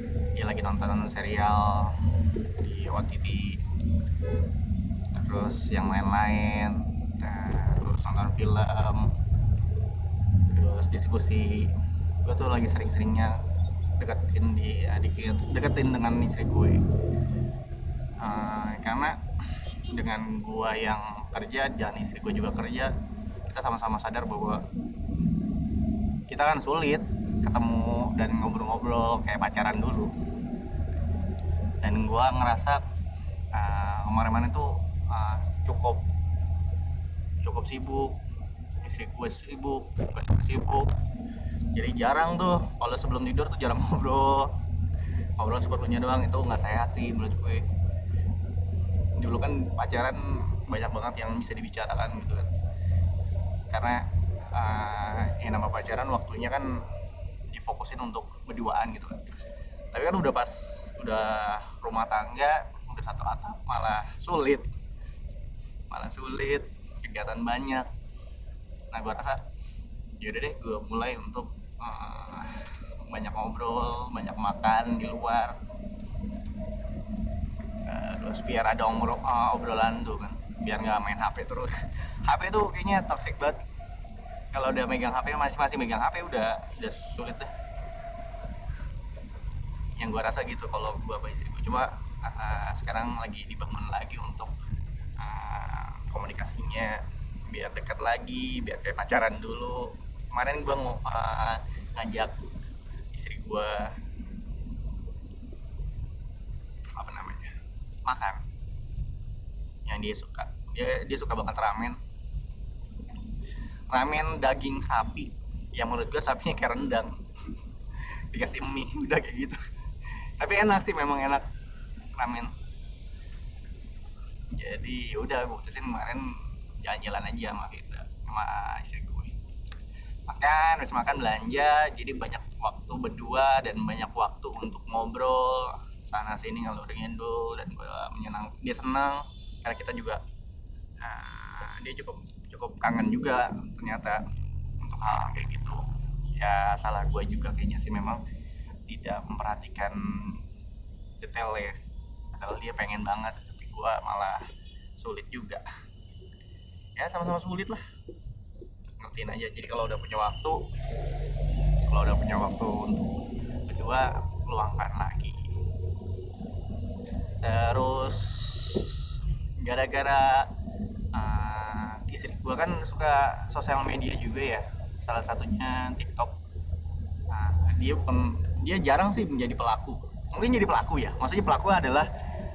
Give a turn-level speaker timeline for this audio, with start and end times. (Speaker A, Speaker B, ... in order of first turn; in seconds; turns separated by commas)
Speaker A: 0.3-2.0, Speaker A: 2.6-3.6, Speaker A: 5.1-9.1, Speaker A: 10.5-13.4, Speaker A: 14.0-16.8, Speaker A: 18.2-19.1, Speaker A: 19.9-22.9, Speaker A: 23.5-24.6, Speaker A: 26.3-30.1, Speaker A: 31.8-32.8, Speaker A: 33.5-36.0, Speaker A: 37.4-38.2, Speaker A: 38.8-40.9, Speaker A: 41.7-44.5, Speaker A: 45.4-47.6, Speaker A: 49.2-52.5, Speaker A: 53.7-56.7, Speaker A: 57.5-59.2, Speaker A: 59.9-64.6, Speaker A: 65.9-67.9, Speaker A: 68.9-69.4, Speaker A: 70.2-75.6, Speaker A: 77.8-81.7, Speaker A: 82.2-83.6, Speaker A: 84.5-87.5, Speaker A: 90.0-94.5, Speaker A: 95.2-102.3, Speaker A: 103.1-103.9, Speaker A: 106.9-108.4, Speaker A: 109.8-112.0, Speaker A: 113.9-117.2, Speaker A: 118.3-119.6, Speaker A: 120.4-121.4, Speaker A: 122.2-122.5, Speaker A: 124.5-129.3, Speaker A: 130.3-140.2, Speaker A: 141.0-144.2, Speaker A: 144.8-145.8, Speaker A: 146.3-148.2, Speaker A: 148.9-150.4, Speaker A: 151.2-151.8, Speaker A: 152.3-154.4, Speaker A: 155.0-155.6, Speaker A: 156.9-157.8, Speaker A: 159.0-160.6, Speaker A: 161.9-163.1, Speaker A: 163.7-165.5, Speaker A: 167.4-169.1, Speaker A: 169.6-170.5, Speaker A: 171.1-176.3, Speaker A: 177.3-182.1